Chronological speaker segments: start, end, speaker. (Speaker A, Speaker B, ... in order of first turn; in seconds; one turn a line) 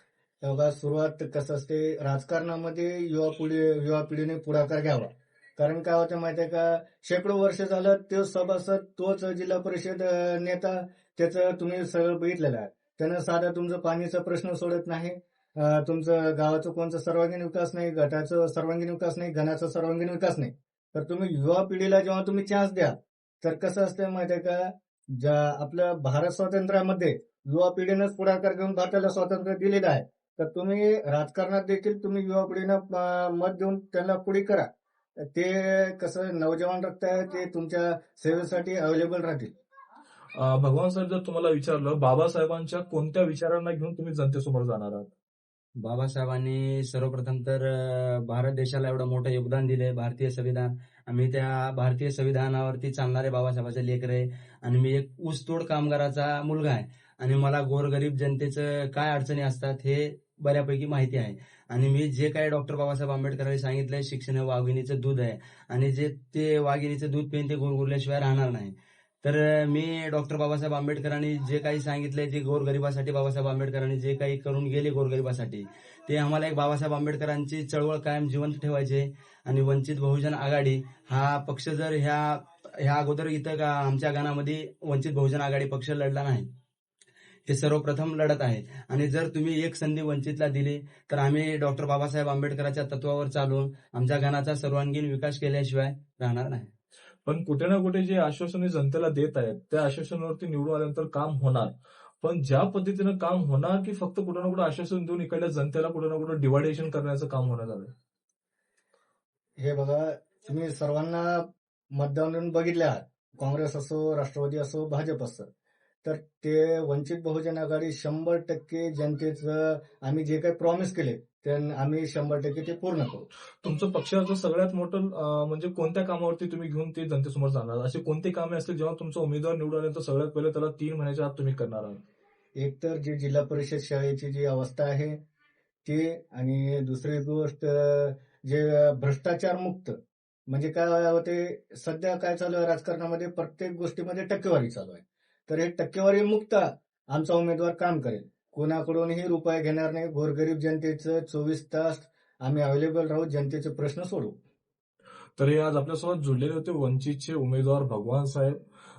Speaker A: 0.4-34.7
Speaker A: 35.3-39.5
Speaker B: 40.3-45.1
Speaker C: 45.8-86.5
Speaker C: 87.5-96.7
Speaker B: 97.2-107.9
Speaker A: 109.6-115.5
Speaker A: 116.0-123.3
Speaker B: 123.6-132.0
Speaker A: 132.6-135.2
Speaker A: 135.8-139.9
Speaker A: 140.5-154.4
Speaker B: 155.4-158.6